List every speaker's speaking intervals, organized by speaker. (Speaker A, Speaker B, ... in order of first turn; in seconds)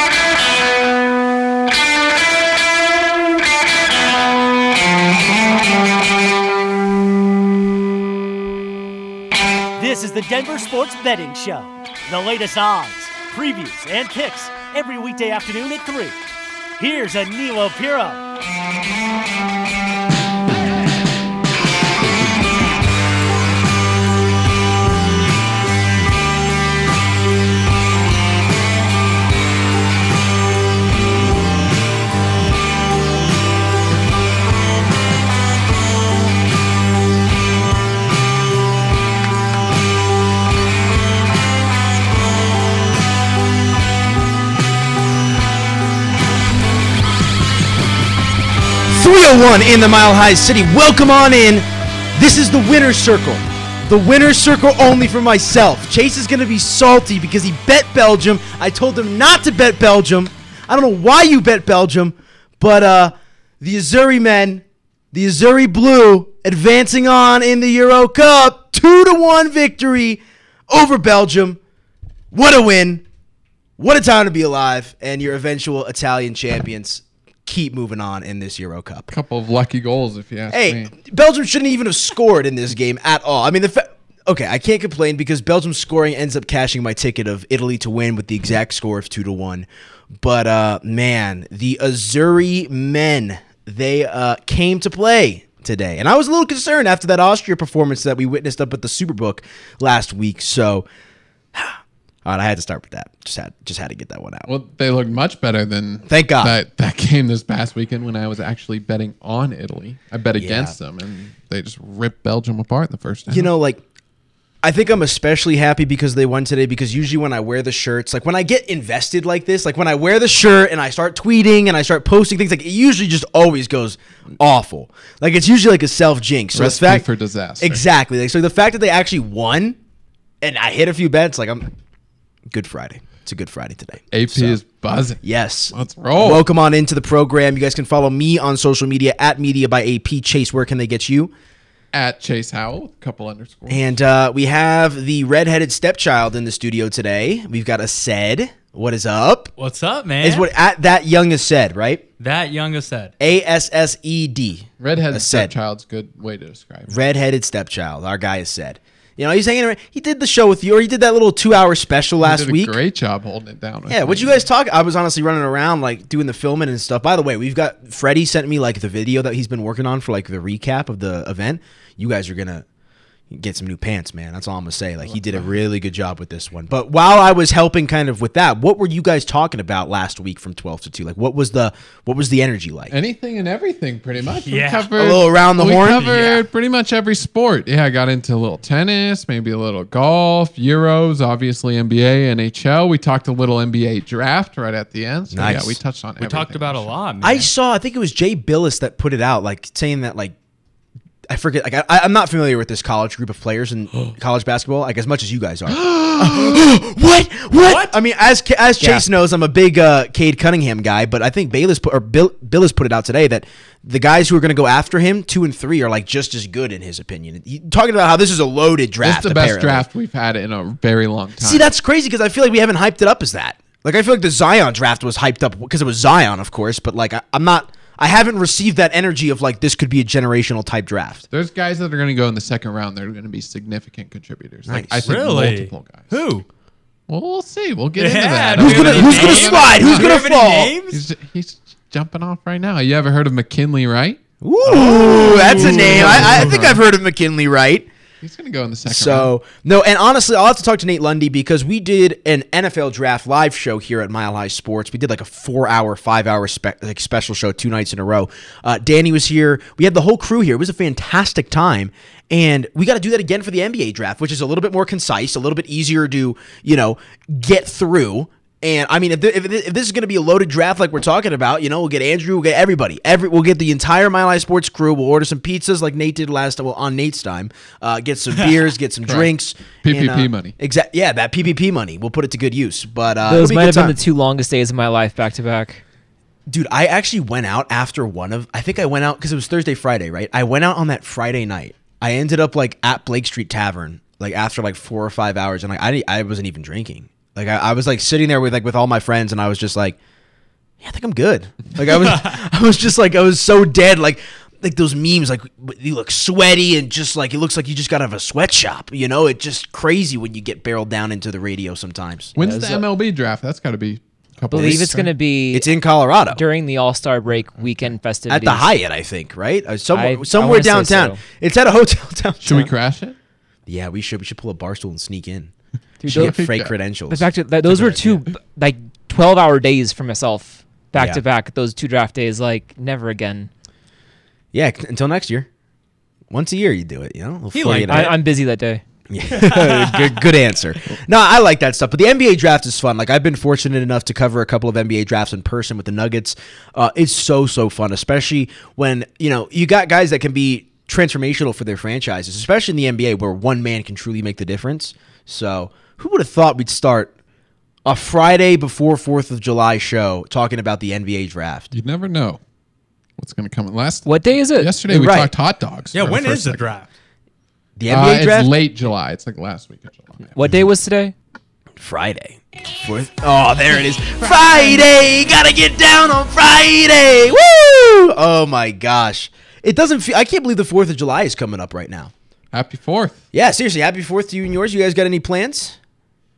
Speaker A: 9.8-16.2, 16.8-18.2
Speaker B: 48.9-71.6, 72.3-73.0, 73.8-79.1, 80.5-89.7, 90.2-100.8, 101.5-104.5, 106.0-106.5, 110.3-110.8, 113.3-113.8, 114.6-127.0, 127.6-129.8, 130.4-131.7, 132.5-134.6, 135.2-141.3, 143.7-149.5, 150.2-152.0, 153.2-155.5, 156.9-162.8, 163.9-172.6, 173.3-182.9, 185.0-186.4, 195.3-195.8, 197.2-200.3, 201.3-219.8, 221.4-231.2, 234.7-235.1, 238.6-240.8, 244.4-247.9, 248.9-284.0, 286.5-300.0, 300.8-312.3, 314.5-314.8, 315.5-316.4, 318.3-322.7, 323.7-325.5, 326.1-327.3, 330.9-331.2, 334.5-335.5, 336.3-338.1, 339.1-357.1, 357.8-361.7, 364.9-365.3, 367.8-368.5, 371.8-382.1, 383.3-385.8
Speaker C: 79.1-80.9, 104.5-113.5, 126.5-127.8, 134.1-136.4, 141.9-143.9, 154.8-157.0, 162.2-164.4, 175.1-175.5, 182.9-196.9, 205.7-206.6, 219.0-221.7, 231.3-236.1, 237.1-240.2, 240.9-244.2, 245.2-246.8, 248.2-249.3, 279.1-279.3, 279.8-280.5, 312.4-315.1, 322.4-323.1, 326.1-326.7, 361.7-362.4, 363.2-366.7, 367.9-370.4, 382.5-383.2
Speaker D: 149.6-150.5, 152.2-153.1, 184.3-184.9, 186.0-186.3, 196.2-197.5, 207.6-208.0, 235.0-236.4, 237.9-241.0, 244.7-246.5, 337.5-338.1, 339.3-340.2, 365.9-366.9
Speaker E: 283.3-285.8, 312.4-312.8, 314.5-315.7, 316.3-318.7, 319.9-321.2, 326.0-326.4, 327.1-333.5, 337.9-338.8, 364.1-364.7, 370.3-371.1